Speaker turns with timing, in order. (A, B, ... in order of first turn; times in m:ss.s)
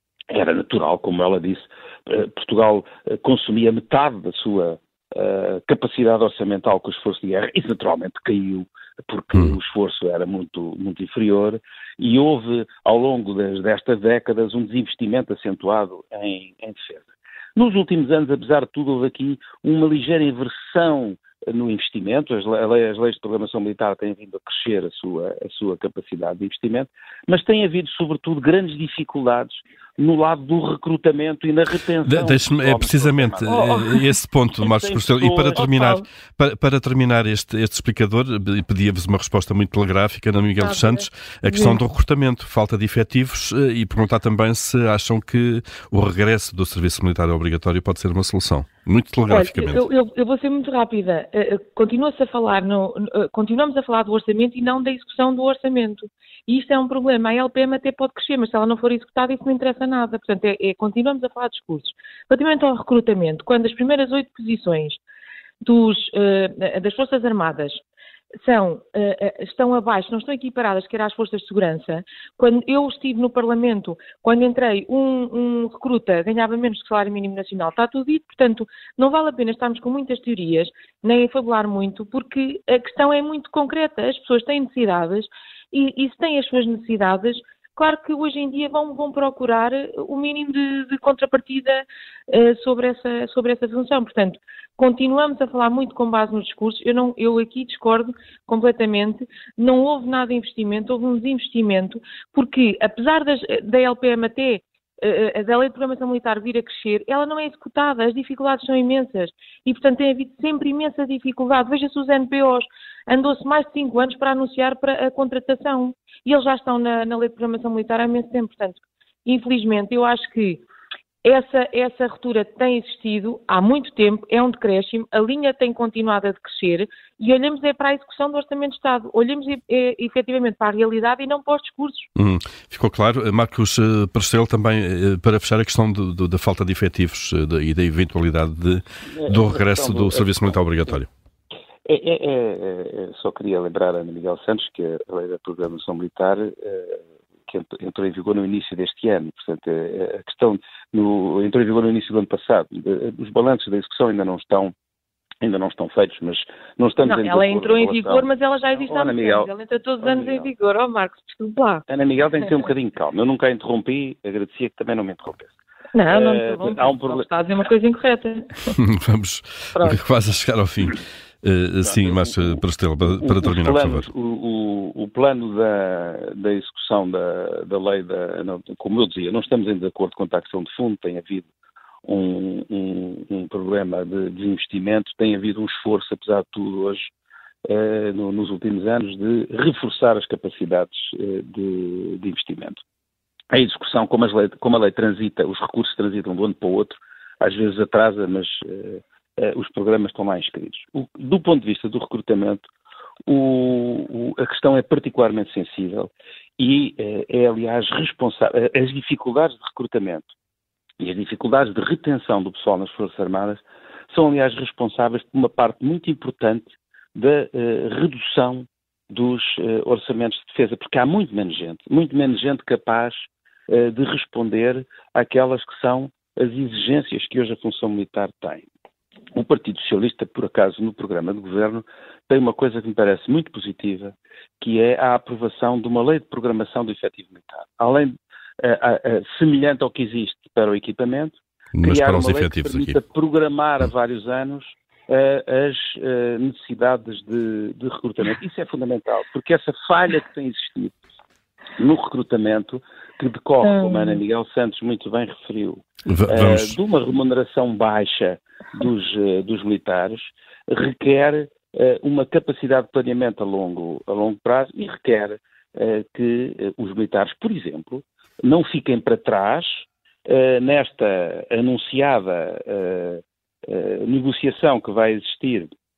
0:00.3-0:33.6 A
0:32.1-0:49.8 B
0:33.4-0:34.1 C
0:34.6-0:35.6 A
0:35.6-0:36.0 C
0:40.6-0:41.8 C
0:49.3-1:05.0 C
1:05.6-1:07.8 C
1:08.4-2:00.6 C
2:01.2-2:12.1 C
2:12.2-2:21.1 B
2:19.1-2:21.0 A
2:21.9-2:34.7 A
2:35.4-2:40.5 A
2:37.0-2:41.8 C
2:41.9-2:45.6 A
2:45.9-2:48.7 C
2:46.1-2:47.3 A
2:48.8-2:54.1 B
2:49.8-2:50.0 C
2:51.8-3:01.5 A
3:02.0-3:07.1 A
3:07.7-3:12.8 A
3:13.5-3:22.7 A
3:23.3-3:30.3 A
3:31.0-3:48.7 A
3:49.3-4:11.0 A
4:01.8-4:03.0 B
4:11.8-4:35.7 A
4:13.6-4:14.2 C
4:16.1-4:16.8 B